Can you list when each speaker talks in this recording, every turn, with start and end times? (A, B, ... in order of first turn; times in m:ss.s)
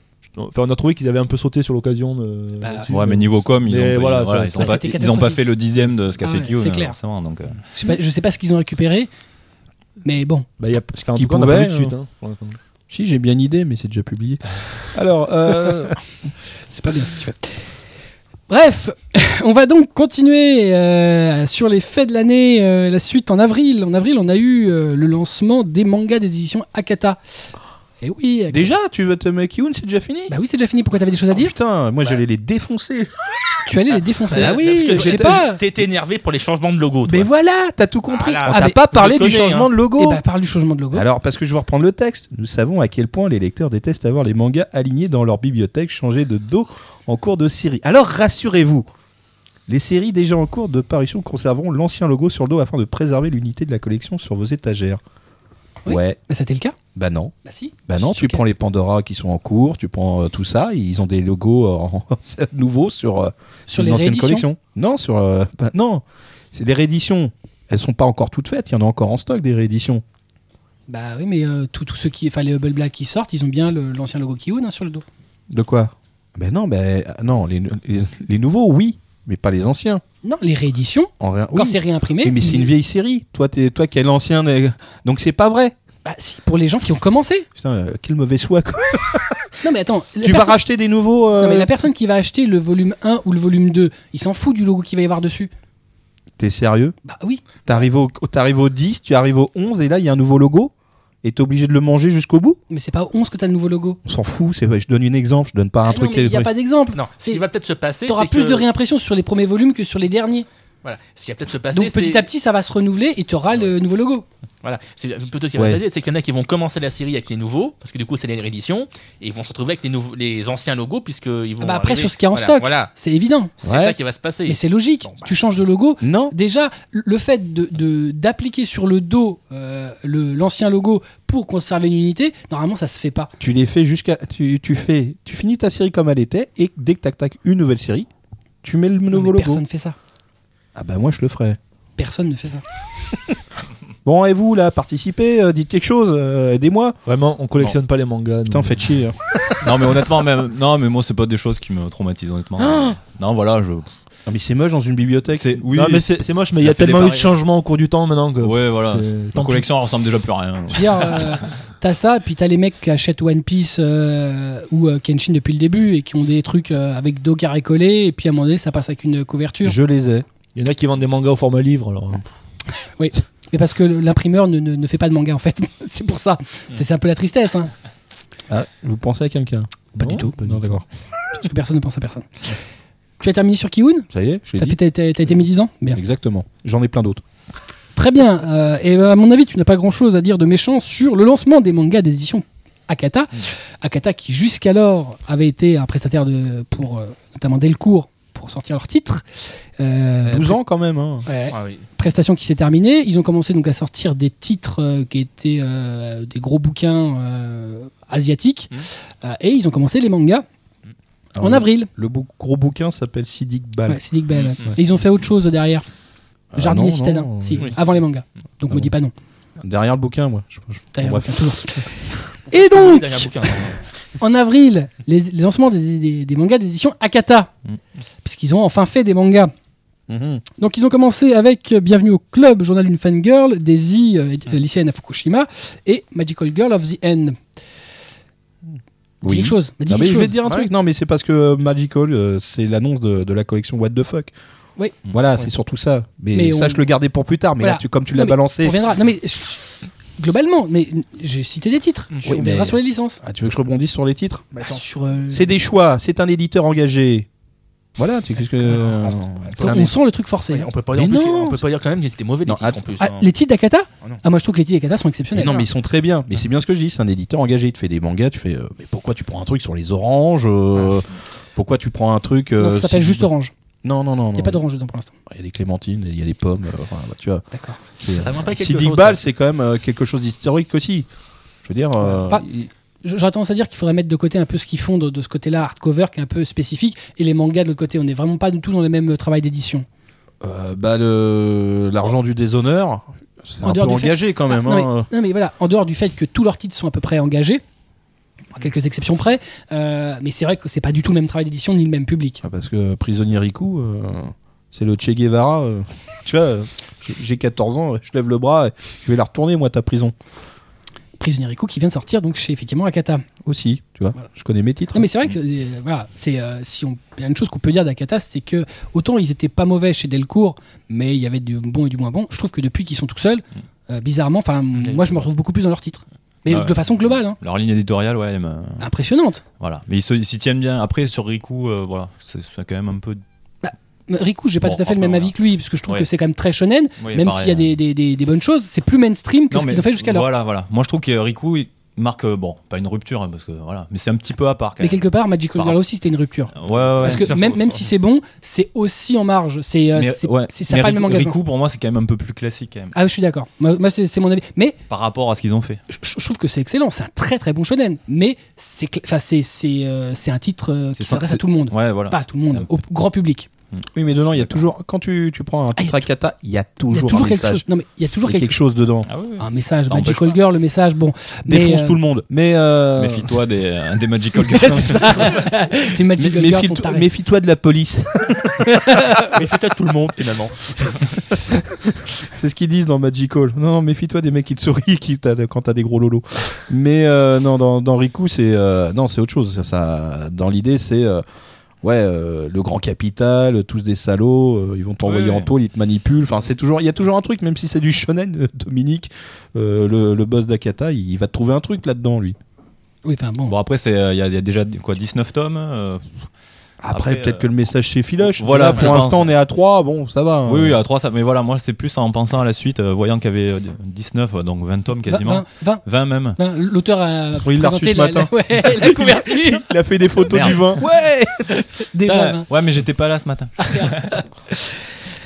0:00.3-0:05.0 A
0:02.6-0:02.9 B
0:02.9-0:07.6 C
0:04.5-0:05.4 B
0:06.2-0:07.0 B
0:07.7-0:09.1 B
0:10.0-0:10.5 B
0:10.6-0:12.6 A
0:11.1-0:11.9 D
0:12.9-0:16.0 D
0:16.7-0:17.6 B
0:18.5-0:27.2 B
0:28.0-0:28.7 B
0:28.5-0:30.3 D
0:30.3-0:31.5 B
0:31.3-0:33.1 D
0:33.6-0:35.6 B
0:34.3-0:37.3 E
0:34.3-0:35.5 D
0:37.0-0:40.2 D
0:38.1-0:39.7 E
0:38.5-0:38.8 B
0:40.0-0:41.1 B
0:40.9-0:48.9 D
0:49.7-0:55.0 D
0:55.8-0:56.8 B
0:55.9-0:56.2 D
0:56.9-0:57.3 D
0:57.4-0:58.4 B
0:57.9-1:10.0 D
1:03.7-1:04.4 B
1:10.9-1:15.0 B
1:15.5-1:20.0 D
1:20.2-1:22.7 B
1:21.2-1:25.7 D
1:26.0-1:27.5 B
1:27.5-1:29.6 D
1:29.6-1:30.6 B
1:30.2-1:31.7 D
1:31.4-1:35.5 B
1:36.4-1:36.9 D
1:37.0-1:37.4 B
1:37.6-1:40.7 D
1:41.2-1:42.6 D
1:42.7-1:44.0 B
1:44.0-1:46.5 D
1:45.8-1:47.4 B
1:46.9-1:48.7 E
1:48.1-1:50.5 B
1:50.8-1:52.2 E
1:51.7-1:54.2 B
1:54.6-2:02.9 E
1:55.6-1:55.8 D
2:01.6-2:03.5 B
2:03.6-2:05.3 E
2:03.6-2:04.0 D
2:04.5-2:13.3 B
2:06.0-2:06.3 D
2:13.4-2:18.1 D
2:18.6-2:19.6 D
2:19.1-2:20.0 B
2:20.7-2:21.6 D
2:22.0-2:22.6 B
2:24.0-2:27.0 D
2:27.0-2:28.9 A
2:28.5-2:29.9 D
2:29.6-2:33.9 C
2:32.6-2:33.0 D
2:34.3-2:35.6 D
2:35.3-2:37.2 C
2:35.7-2:39.7 A
2:38.4-2:41.5 C
2:40.7-2:49.8 B
2:49.6-2:50.2 D
2:50.5-2:52.2 A
2:52.8-2:57.7 B
2:58.5-3:00.8 D
3:00.0-3:00.3 B
3:00.0-3:00.8 A
3:01.3-3:02.5 B
3:03.2-3:06.0 B
3:04.1-3:04.8 D
3:05.9-3:07.2 D
3:07.9-3:20.6 B
3:20.3-3:21.3 D
3:21.3-3:30.4 B
3:21.5-3:21.9 E
3:31.4-3:34.0 D
3:31.4-3:31.9 B
3:33.9-3:35.8 B
3:36.5-3:37.7 D
3:36.6-3:39.1 B
3:39.6-3:41.9 D
3:40.9-3:43.5 B
3:42.5-3:43.8 E
3:44.2-3:47.5 B
3:48.2-3:49.5 B
3:50.1-3:50.4 D
3:50.6-3:57.4 B
3:59.2-4:04.3 D
3:59.2-4:00.3 B
4:05.1-4:08.8 D
4:06.3-4:06.8 B
4:07.6-4:13.2 B
4:12.2-4:14.6 D
4:14.6-4:15.5 B
4:15.3-4:17.3 D
4:18.0-4:19.9 D
4:19.0-4:19.8 E
4:19.6-4:20.7 B
4:20.5-4:23.3 E
4:20.9-4:21.6 D
4:22.4-4:22.8 D
4:23.0-4:25.7 B
4:25.3-4:33.3 D
4:32.6-4:33.5 B
4:33.8-4:34.6 D
4:34.3-4:35.1 B
4:35.3-4:37.4 D
4:37.5-4:37.8 B
4:38.0-4:41.1 D
4:38.1-4:39.2 E
4:41.6-4:42.7 D
4:42.1-4:42.4 B
4:43.0-4:49.8 B
4:50.4-4:55.1 D
4:53.6-4:57.6 B
4:58.5-5:02.4 B
5:02.4-5:10.1 D
5:11.2-5:13.2 B
5:13.4-5:15.1 D
5:14.9-5:27.4 B
5:26.5-5:28.9 C
5:28.8-5:29.4 B
5:29.6-5:33.2 C
5:33.6-5:40.3 B
5:34.6-5:35.3 C
5:37.0-5:37.8 C
5:39.5-5:45.8 C
5:44.8-5:51.4 B
5:46.5-5:47.6 C
5:47.0-5:47.5 E
5:49.9-5:53.0 C
5:52.9-5:54.8 B
5:54.9-5:55.8 C
5:55.9-6:03.5 B
6:01.0-6:02.7 C
6:03.7-6:04.5 C
6:03.9-6:07.6 D
6:05.8-6:06.0 B
6:06.9-6:08.6 B
6:08.2-6:09.1 D
6:09.0-6:10.4 C
6:09.4-6:12.0 B
6:11.4-6:13.4 D
6:13.0-6:15.5 C
6:14.3-6:17.0 B
6:14.9-6:15.4 D
6:16.2-6:19.4 D
6:18.6-6:19.3 B
6:19.2-6:21.0 E
6:21.4-6:31.2 D
6:31.8-6:42.4 D
6:35.1-6:35.5 C
6:43.0-6:43.6 B
6:43.5-6:46.3 C
6:46.8-6:50.8 D
6:46.9-6:47.4 C
6:48.2-6:49.3 C
6:50.4-6:56.4 C
6:55.0-6:59.7 B
6:57.4-7:01.4 D
7:00.3-7:00.7 C
7:01.6-7:02.5 B
7:02.0-7:04.2 C
7:03.6-7:04.8 B